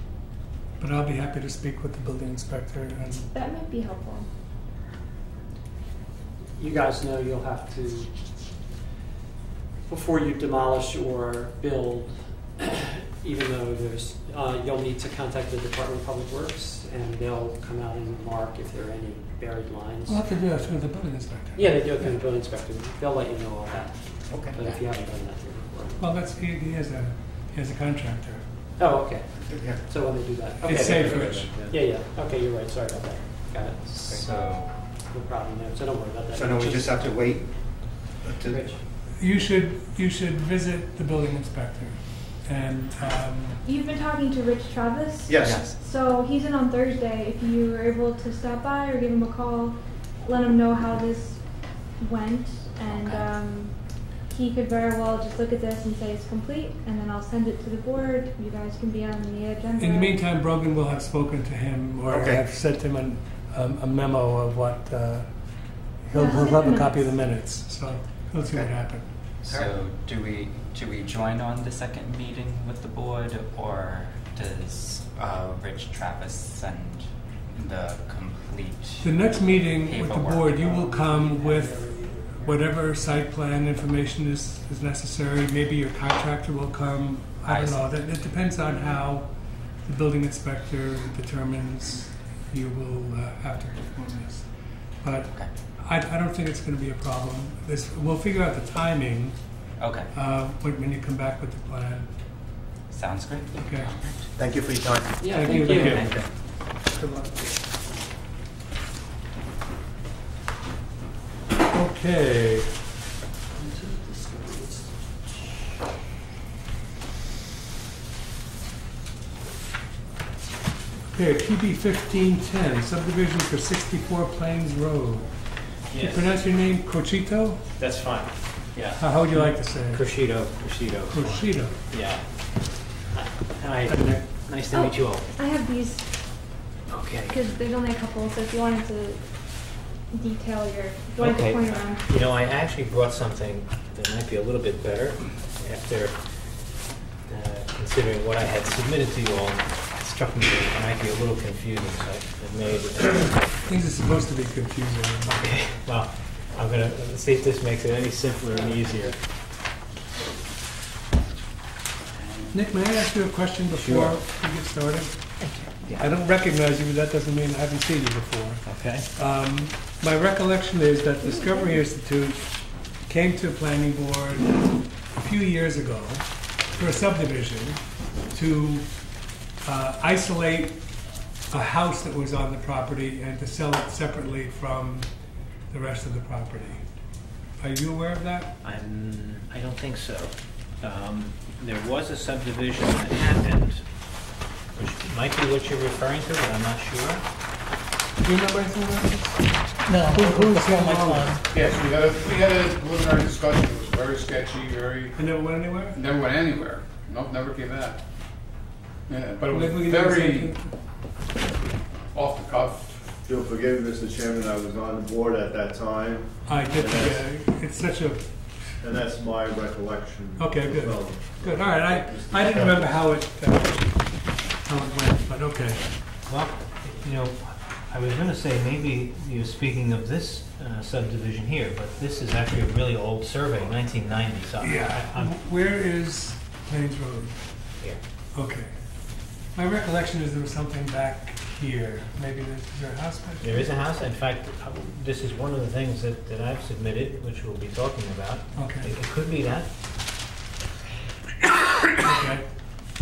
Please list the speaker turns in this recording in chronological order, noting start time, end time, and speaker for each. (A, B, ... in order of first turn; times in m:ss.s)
0:00.8-0:03.3 A
0:03.3-0:04.3 B
0:06.6-0:08.1 C
0:09.9-0:20.2 C
0:20.1-0:21.8 A
0:21.6-0:26.0 C
0:24.3-0:24.6 D
0:26.0-0:28.4 A
0:28.8-0:34.3 C
0:30.6-0:31.5 A
0:30.7-0:31.8 E
0:33.9-0:34.7 F
0:35.1-0:37.1 C
0:36.3-0:37.5 D
0:38.2-0:38.7 D
0:38.4-0:38.8 C
0:39.2-0:43.6 A
0:43.6-1:00.1 B
0:45.3-0:45.7 D
0:45.4-0:45.8 F
0:52.9-0:53.3 F
0:59.8-1:09.1 A
1:02.1-1:02.4 D
1:06.1-1:07.0 B
1:08.4-1:08.7 D
1:09.4-1:20.8 F
1:19.0-1:21.8 A
1:20.6-1:22.7 C
1:22.4-1:39.4 A
1:27.4-1:27.9 F
1:39.8-1:40.1 F
1:40.1-1:42.1 A
1:42.9-1:44.3 F
1:43.6-1:43.9 A
1:44.4-1:45.3 D
1:45.2-1:46.2 C
1:45.3-1:46.2 A
1:45.3-1:46.3 F
1:46.9-1:47.4 A
1:51.7-1:52.7 A
1:53.5-1:54.9 C
2:01.1-2:05.4 A
2:05.9-2:06.3 E
2:05.9-2:07.6 A
2:07.8-2:12.6 E
2:09.0-2:10.0 A
2:11.1-2:11.8 A
2:13.1-2:15.3 E
2:13.9-2:14.2 A
2:14.7-2:16.0 B
2:16.9-2:17.5 E
2:17.3-2:22.0 B
2:21.2-2:26.3 E
2:27.2-2:33.5 E
2:33.6-2:35.8 A
2:35.3-2:39.2 E
2:42.5-2:45.3 A
2:43.7-2:44.2 E
2:45.4-2:46.0 E
2:45.9-2:59.0 A
2:48.6-2:49.1 E
2:59.6-3:00.9 A
3:01.5-3:05.1 A
3:05.7-3:06.9 A
3:07.6-3:08.5 A
3:08.6-3:13.8 E
3:14.7-3:17.2 E
3:18.2-3:19.5 A
3:20.0-3:21.3 A
3:21.5-3:25.2 G
3:25.2-3:26.0 A
3:25.9-3:28.0 G
3:29.1-3:30.5 G
3:29.5-3:30.7 A
3:32.1-3:33.0 G
3:33.2-3:37.2 H
3:36.4-3:38.3 A
3:38.8-3:42.9 H
3:40.4-3:45.8 A
3:46.3-3:55.3 E
3:54.6-3:57.4 A
3:58.3-3:58.7 A
3:59.5-4:03.7 A
4:03.4-4:09.7 E
4:08.6-4:08.9 A
4:12.0-4:12.4 A